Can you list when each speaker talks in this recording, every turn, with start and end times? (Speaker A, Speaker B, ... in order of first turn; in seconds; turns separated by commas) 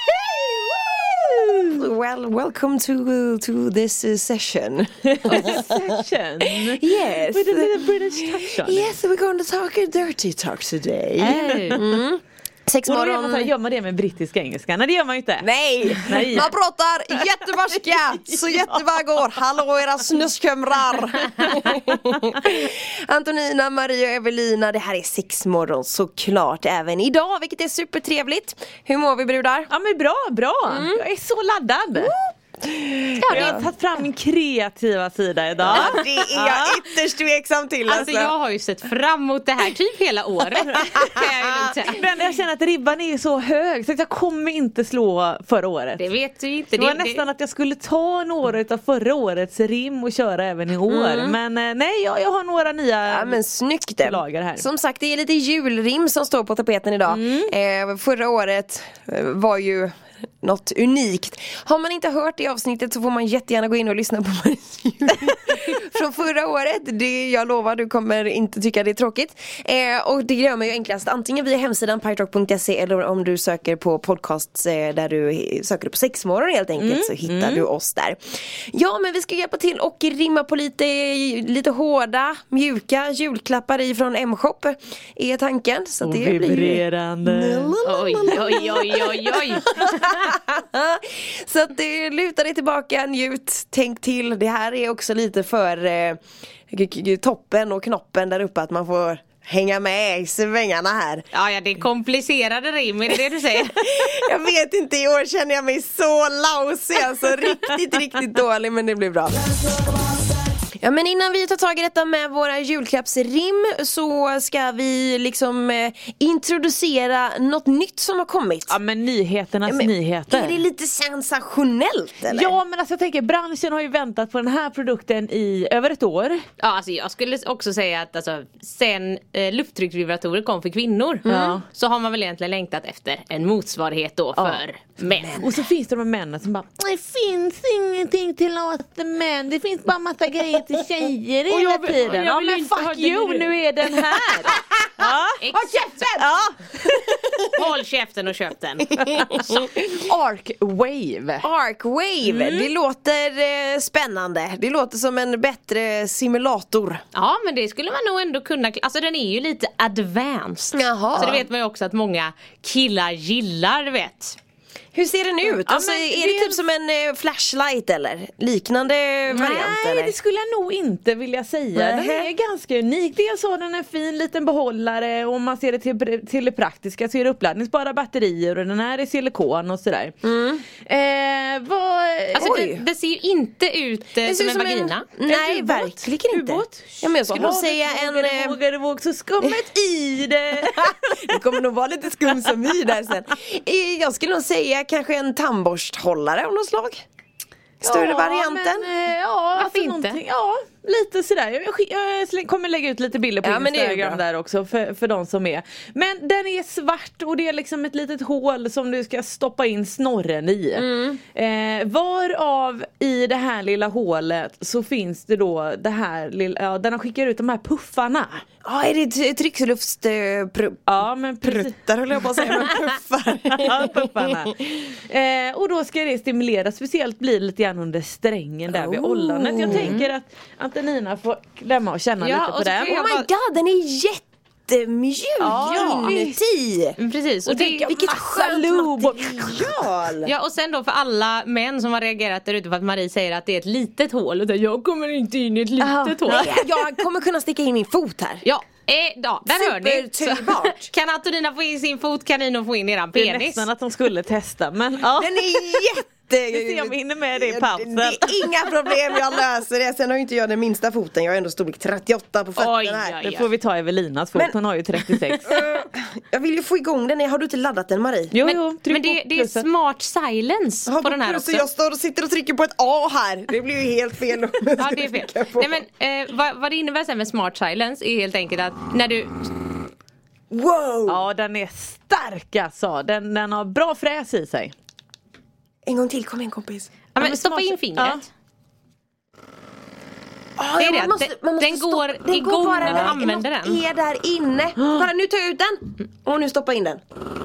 Speaker A: 0.5-1.8, Speaker B: 1.8-5.7, Speaker A: 5.1-8.9, Speaker B: 6.4-13.5, Speaker A: 11.2-11.9, Speaker C: 11.3-11.8, Speaker A: 12.8-16.5, Speaker B: 15.4-29.7, Speaker A: 18.3-19.1, Speaker A: 29.7-32.1, Speaker B: 30.7-31.0, Speaker B: 32.0-33.6, Speaker C: 33.2-33.6, Speaker A: 33.3-36.8, Speaker B: 35.6-38.3, Speaker C: 35.7-36.2, Speaker C: 37.9-42.0, Speaker A: 40.7-41.1, Speaker A: 41.9-46.0, Speaker C: 46.0-47.2, Speaker A: 46.8-53.4, Speaker B: 50.9-51.4, Speaker B: 53.1-101.3, Speaker A: 54.0-54.7, Speaker A: 57.1-57.5, Speaker A: 76.8-77.7, Speaker A: 86.0-87.8, Speaker C: 87.8-90.0, Speaker C: 101.3-103.8, Speaker B: 103.7-109.5, Speaker B: 110.8-118.8, Speaker A: 118.7-120.6, Speaker B: 119.7-122.6, Speaker A: 122.3-126.4, Speaker C: 126.6-135.5, Speaker B: 131.2-131.6, Speaker A: 131.2-131.6, Speaker A: 134.4-145.4, Speaker C: 141.5-143.5, Speaker C: 145.4-146.2, Speaker B: 145.5-146.4, Speaker A: 146.2-147.2, Speaker C: 147.5-148.9, Speaker A: 149.1-151.5, Speaker B: 151.4-157.0, Speaker A: 152.2-152.7, Speaker C: 157.1-164.4, Speaker B: 160.7-161.4, Speaker B: 164.9-170.1, Speaker A: 165.4-166.6, Speaker A: 169.3-180.2, Speaker B: 171.8-172.3, Speaker B: 180.2-180.6, Speaker A: 180.8-182.6, Speaker C: 182.4-185.1, Speaker B: 182.4-182.8, Speaker B: 184.2-188.6, Speaker A: 185.3-191.4, Speaker B: 190.8-197.0, Speaker A: 197.8-218.4, Speaker B: 197.8-198.9, Speaker C: 199.6-200.2, Speaker B: 203.4-204.2, Speaker B: 210.8-211.2, Speaker B: 218.6-220.9, Speaker A: 220.9-222.7, Speaker B: 221.4-224.1, Speaker A: 223.5-233.1, Speaker B: 228.7-230.0, Speaker C: 229.6-230.1, Speaker C: 232.2-233.3, Speaker B: 232.8-240.3, Speaker A: 235.4-236.4, Speaker C: 237.0-237.9, Speaker A: 237.5-239.7, Speaker C: 240.2-246.5, Speaker A: 245.8-246.9, Speaker B: 246.2-248.4, Speaker C: 248.4-253.7, Speaker B: 249.5-250.9, Speaker A: 253.2-259.2, Speaker B: 255.1-263.2, Speaker C: 262.6-263.5, Speaker A: 263.2-265.7, Speaker B: 265.1-268.3, Speaker A: 268.3-269.7, Speaker C: 268.4-271.6, Speaker B: 270.9-275.8, Speaker C: 274.8-279.5, Speaker B: 280.5-281.2, Speaker A: 281.1-284.7, Speaker B: 285.9-286.9, Speaker C: 287.1-288.2, Speaker A: 287.2-288.2, Speaker B: 290.6-297.0, Speaker C: 290.8-293.8, Speaker A: 292.8-293.1